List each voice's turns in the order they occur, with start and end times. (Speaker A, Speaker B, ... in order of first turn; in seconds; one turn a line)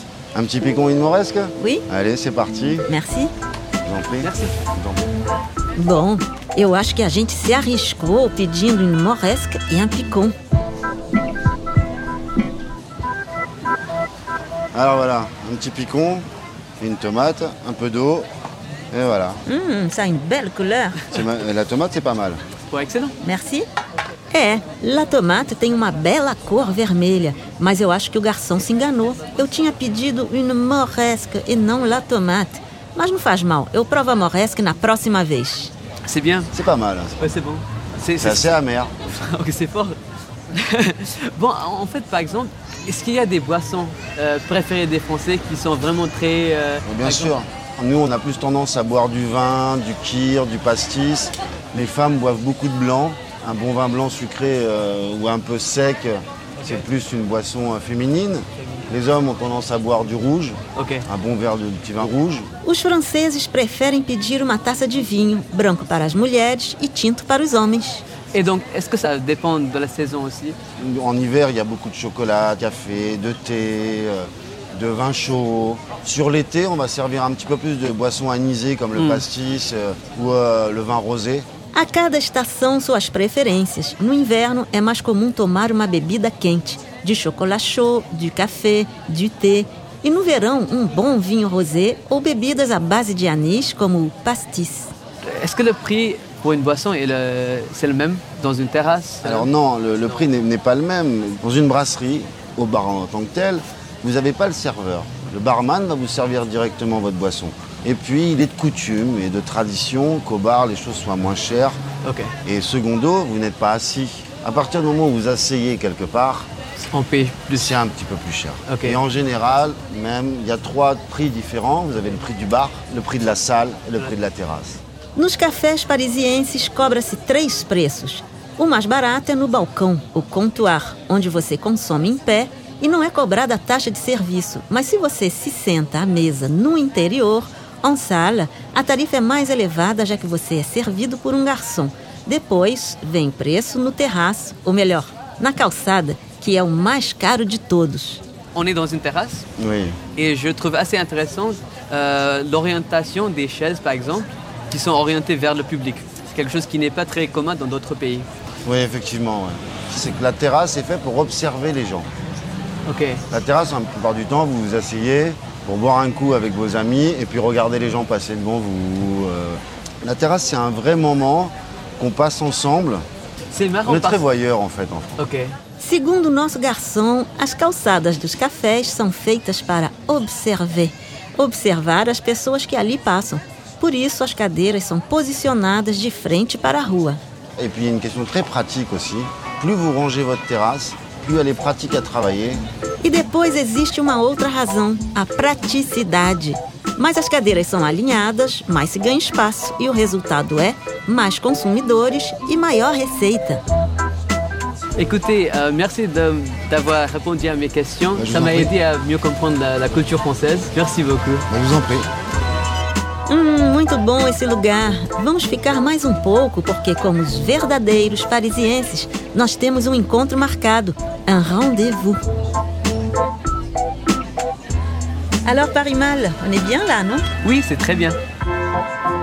Speaker A: 0.3-2.9
Speaker B: 2.9-3.3
Speaker A: 3.8-5.0
Speaker C: 4.2-4.5
Speaker B: 5.8-10.3
Speaker A: 14.7-16.3
Speaker A: 16.8-18.3
Speaker A: 18.9-19.4
Speaker B: 19.4-21.1
Speaker A: 21.1-22.4
Speaker C: 22.7-23.1
Speaker B: 23.2-23.6
Speaker B: 24.3-35.7
Speaker C: 36.0-36.5
Speaker A: 36.5-37.3
Speaker C: 37.2-38.6
Speaker A: 38.2-39.3
Speaker C: 39.1-40.0
Speaker C: 40.5-47.3
Speaker A: 46.8-62.5
Speaker C: 60.7-61.0
Speaker B: 62.6-68.0
Speaker C: 68.3-70.6
Speaker A: 70.8-81.5
Speaker C: 78.9-79.2
Speaker B: 81.7-94.9
Speaker C: 95.2-99.5
Speaker A: 99.2-111.8
Speaker C: 112.0-112.3
Speaker A: 112.4-116.5
Speaker C: 116.8-117.7
Speaker A: 117.5-124.8
Speaker C: 118.7-119.0
Speaker B: 125.2-148.2
Speaker C: 148.5-149.4
Speaker A: 149.6-150.0
Speaker C: 150.1-158.3
Speaker A: 158.6-162.1
Speaker C: 162.8-163.2
Speaker A: 163.3-173.0
Speaker C: 173.5-174.2
Speaker A: 173.8-175.1
Speaker C: 175.2-175.5
Speaker B: 175.8-187.2
Speaker A: 187.6-192.6
Speaker B: 193.0-203.6
Speaker C: 205.0-211.5
Speaker A: 208.1-208.7
Speaker A: 211.5-212.1
Speaker B: 213.3-222.2
Speaker B: 225.4-227.3
Speaker C: 227.4-228.2